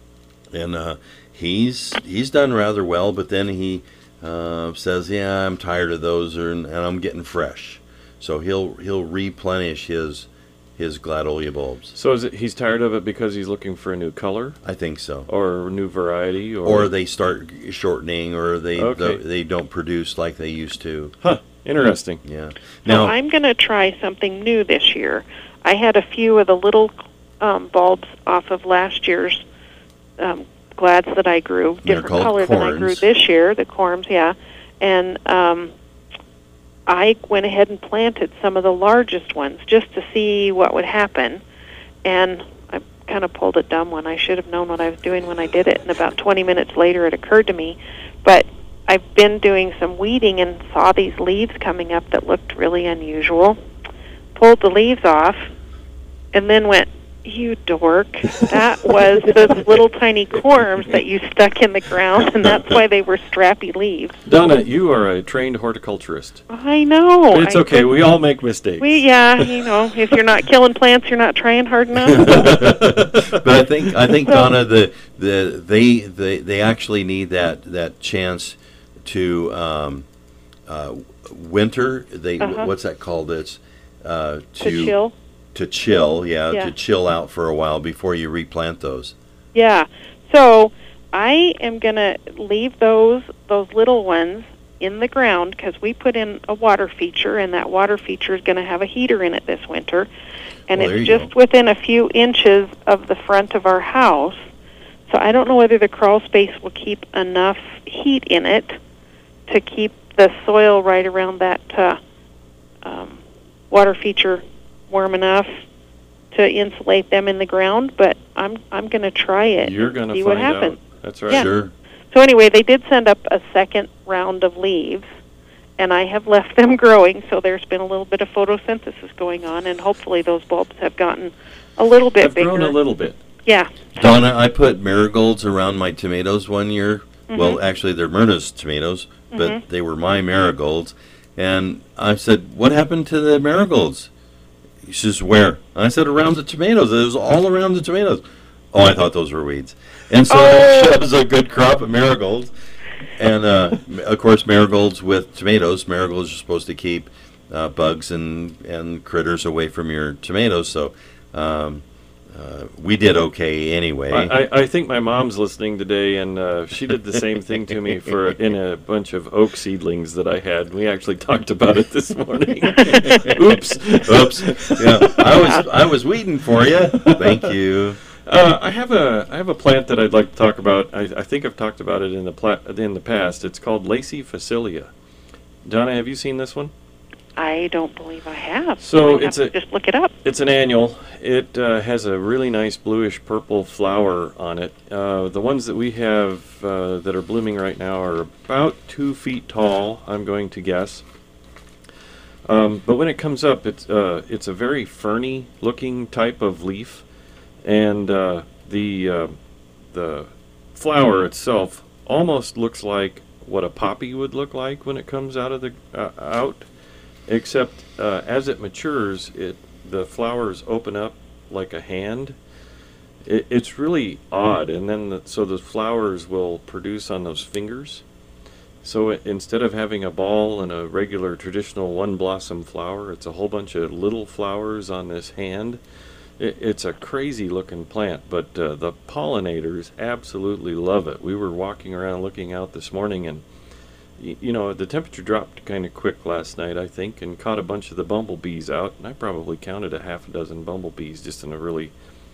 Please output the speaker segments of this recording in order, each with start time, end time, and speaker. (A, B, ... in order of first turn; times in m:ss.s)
0:00.5-0:11.9 A
0:11.9-0:14.6 B
0:14.6-0:15.3 A
0:15.3-0:16.9 B
0:16.6-0:21.1 A
0:18.8-0:19.2 B
0:21.2-0:22.2 B
0:22.2-0:23.1 A
0:22.9-0:29.4 C
0:30.2-0:35.7 C
0:31.8-0:33.0 A
0:36.9-0:41.4 C
0:42.0-0:53.6 C
0:54.4-0:55.5 C
0:56.3-1:04.2 C
1:04.3-1:06.4 B
1:06.5-1:07.9 C
1:07.3-1:10.0 B
1:08.8-1:12.6 C
1:12.1-1:20.1 A
1:12.2-1:13.9 B
1:14.2-1:14.5 C
1:20.7-1:25.0 A
1:22.4-1:22.7 C
1:24.6-1:25.1 C
1:25.5-1:29.1 A
1:29.5-1:40.1 C
1:40.7-1:44.5 C
1:40.7-1:41.3 A
1:45.1-1:48.8 C
1:49.5-1:52.0 C
1:52.8-1:55.6 C
1:56.3-2:01.5 C
1:59.6-2:01.5 B
2:01.3-2:01.7 A
2:02.1-2:05.1 C
2:05.8-2:12.8 C
2:12.2-2:13.2 B
2:13.5-2:13.9 C
2:14.0-2:24.1 A
2:17.3-2:17.6 C
2:19.3-2:19.6 C
2:24.8-2:32.5 A
2:30.3-2:30.9 C
2:33.2-2:44.3 A
2:44.1-2:55.5 B
2:52.8-2:53.3 C
2:53.0-2:53.4 A
2:54.0-2:58.0 A
2:55.4-2:55.6 C
2:56.9-2:57.5 B
2:58.3-3:04.9 B
3:05.6-3:06.7 B
3:07.4-3:10.1 C
3:08.8-3:09.6 B
3:10.2-3:21.0 B
3:22.5-3:27.0 B
3:27.6-3:29.4 B
3:29.9-3:36.6 B
3:37.3-3:42.4 B
3:43.2-3:48.0 B
3:48.8-3:55.8 B
3:56.4-4:03.4 B
4:04.2-4:11.9 B